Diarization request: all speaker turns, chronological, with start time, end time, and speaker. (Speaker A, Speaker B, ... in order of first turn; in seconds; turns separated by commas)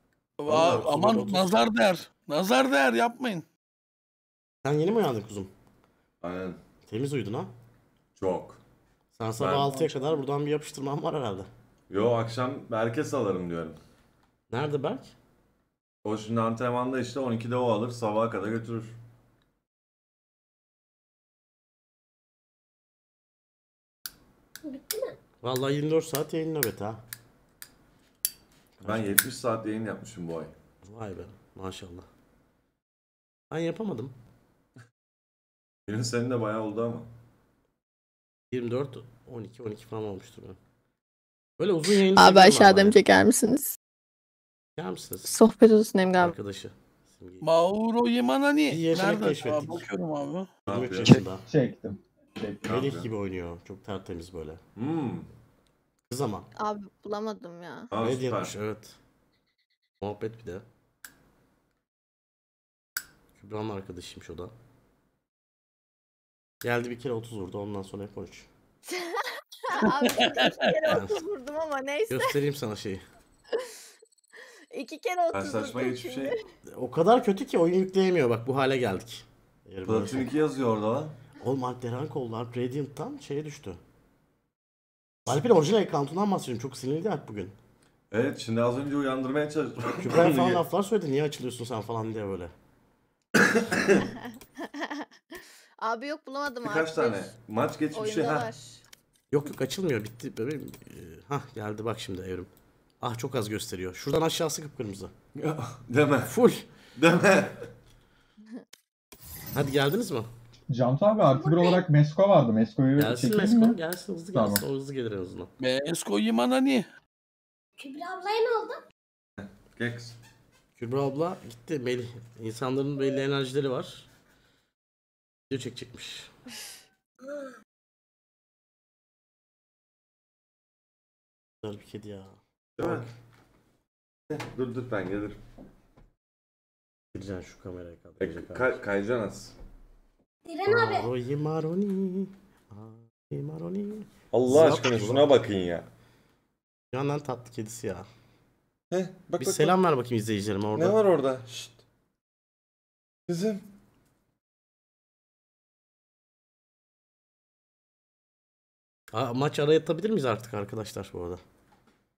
Speaker A: 0.4-3.5, Speaker B: 0.5-1.7, Speaker B: 4.6-5.5, Speaker C: 6.2-6.6, Speaker B: 6.9-7.5, Speaker C: 8.2-8.6, Speaker B: 9.2-11.5, Speaker C: 9.4-9.8, Speaker A: 9.5-10.1, Speaker C: 11.9-13.8, Speaker B: 14.5-15.1, Speaker C: 16.0-19.0, Speaker D: 24.6-25.2, Speaker B: 25.4-27.0, Speaker B: 28.8-29.3, Speaker C: 28.8-30.5, Speaker B: 30.8-32.1, Speaker B: 33.5-34.2, Speaker C: 35.9-37.1, Speaker B: 38.5-40.6, Speaker B: 41.6-43.0, Speaker E: 42.1-43.8, Speaker B: 44.8-45.3, Speaker E: 45.2-46.4, Speaker B: 46.2-47.5, Speaker A: 47.4-50.5, Speaker B: 48.7-49.9, Speaker C: 50.7-51.2, Speaker B: 50.7-51.5, Speaker F: 51.1-52.7, Speaker C: 52.6-53.1, Speaker B: 52.6-54.6, Speaker C: 54.8-55.3, Speaker B: 56.1-56.5, Speaker E: 56.6-57.9, Speaker C: 57.9-58.5, Speaker B: 57.9-59.0, Speaker B: 60.0-60.6, Speaker B: 63.4-64.5, Speaker B: 66.6-68.5, Speaker E: 68.9-72.4, Speaker A: 69.8-70.7, Speaker B: 70.9-71.2, Speaker B: 72.1-73.0, Speaker E: 74.7-76.4, Speaker C: 75.3-76.3, Speaker B: 76.7-80.3, Speaker C: 79.8-81.2, Speaker B: 81.4-83.8, Speaker B: 85.3-87.6, Speaker C: 88.1-90.6, Speaker B: 89.9-92.5, Speaker C: 93.6-94.0, Speaker E: 94.7-95.1, Speaker E: 95.8-97.3, Speaker C: 96.6-98.5, Speaker E: 97.9-98.8, Speaker B: 99.3-105.1, Speaker C: 105.4-106.3, Speaker B: 106.3-106.7, Speaker C: 107.0-107.7, Speaker B: 109.5-110.3, Speaker F: 110.7-113.8, Speaker D: 111.2-111.8, Speaker B: 113.0-115.5, Speaker F: 114.3-114.6, Speaker A: 115.6-116.9, Speaker D: 117.8-118.8, Speaker C: 119.7-120.2, Speaker B: 120.8-124.1, Speaker B: 125.5-126.3, Speaker D: 127.2-127.5, Speaker B: 131.6-133.1, Speaker C: 132.8-133.1, Speaker C: 134.3-135.4, Speaker B: 137.1-138.8, Speaker C: 138.2-139.5, Speaker D: 140.5-141.1, Speaker B: 140.7-145.3, Speaker C: 144.3-145.9, Speaker B: 146.9-148.1, Speaker C: 148.9-149.8, Speaker B: 149.4-151.0, Speaker C: 150.7-151.7, Speaker C: 153.3-153.7, Speaker B: 159.1-161.4